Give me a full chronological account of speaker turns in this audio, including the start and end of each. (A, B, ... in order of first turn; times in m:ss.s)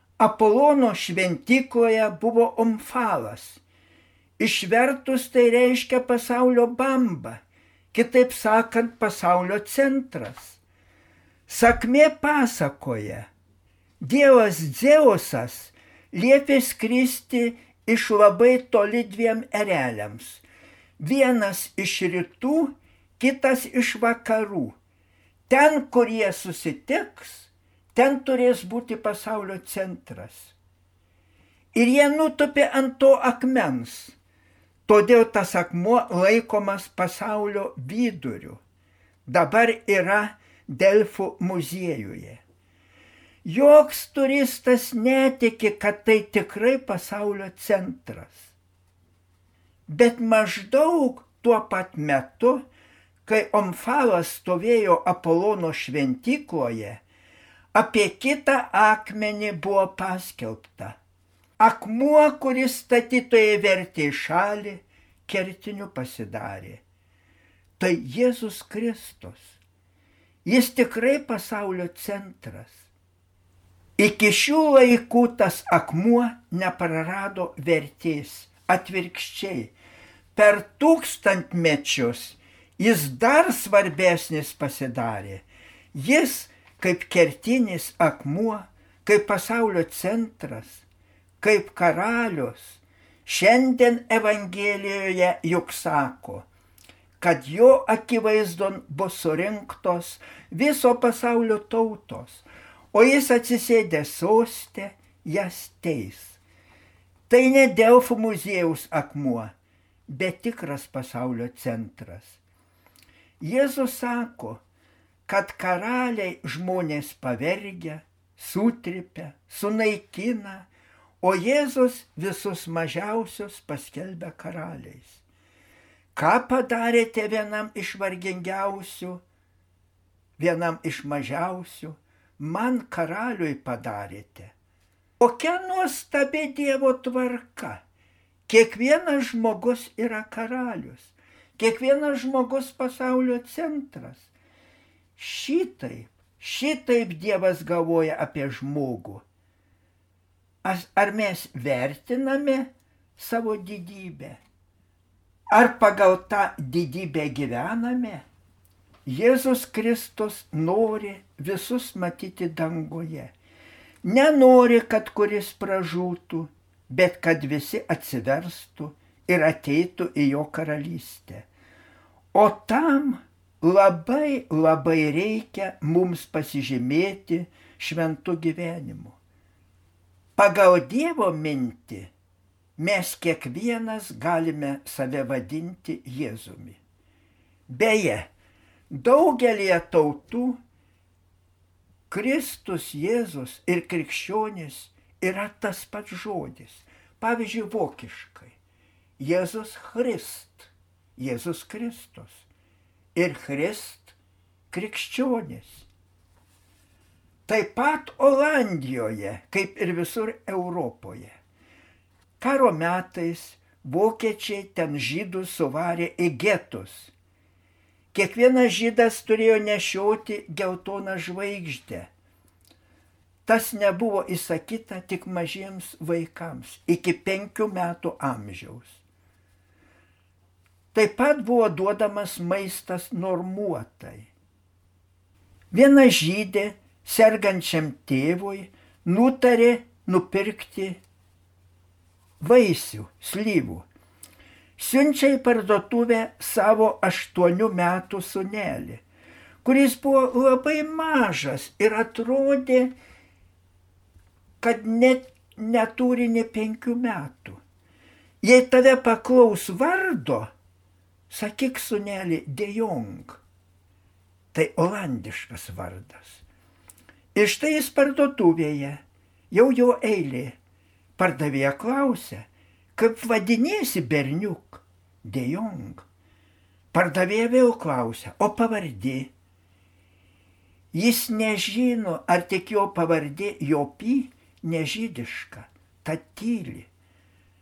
0:00.2-0:03.6 A
0:04.4-0:07.4 A
0:07.9-0:10.6 A
0:11.5-0:13.2 A
0:14.0-0:20.4 A
0:21.0-0:24.8 A
0:25.5-0:30.5 A
0:31.7-0:34.2 A
0:34.9-0:38.6 A
0:39.2-0:42.4 A
0:43.4-0:48.5 A
0:49.9-0:52.6 A
0:53.2-0:57.0 A
0:57.7-1:01.0 A
1:01.6-1:06.8 A
1:07.8-1:09.6 A
1:10.4-1:12.9 A
1:14.0-1:19.7 A
1:20.3-1:30.8 A
1:31.4-1:36.5 A
1:37.2-1:46.4 A
1:47.3-1:49.5 A
1:50.1-1:52.4 A
1:53.4-1:54.6 A
1:55.3-2:00.7 A
2:01.2-2:05.2 A
2:06.1-2:09.2 A
2:10.4-2:14.5 A
2:15.2-2:17.8 A
2:18.5-2:24.3 A
2:25.2-2:29.2 A
2:30.6-2:34.4 A
2:35.5-2:38.2 A
2:39.0-2:43.3 A
2:44.0-2:51.4 A
2:52.3-2:59.2 A
3:00.4-3:02.1 A
3:02.8-3:06.8 A
3:07.7-3:08.3 A
3:08.9-3:10.6 A
3:12.1-3:18.5 A
3:19.2-3:22.4 A
3:23.1-3:24.2 A
3:24.7-3:25.8 A
3:27.5-3:31.3 A
3:32.4-3:37.1 A
3:38.1-3:42.1 A
3:43.4-3:49.0 A
3:50.9-3:54.3 A
3:55.7-4:01.0 A
4:02.4-4:03.9 A
4:04.8-4:09.0 A
4:09.6-4:12.9 A
4:14.6-4:17.6 A
4:18.4-4:20.5 A
4:21.3-4:23.4 A
4:24.5-4:26.4 A
4:27.3-4:30.6 A
4:31.2-4:36.0 A
4:36.9-4:39.3 A
4:40.9-4:46.9 A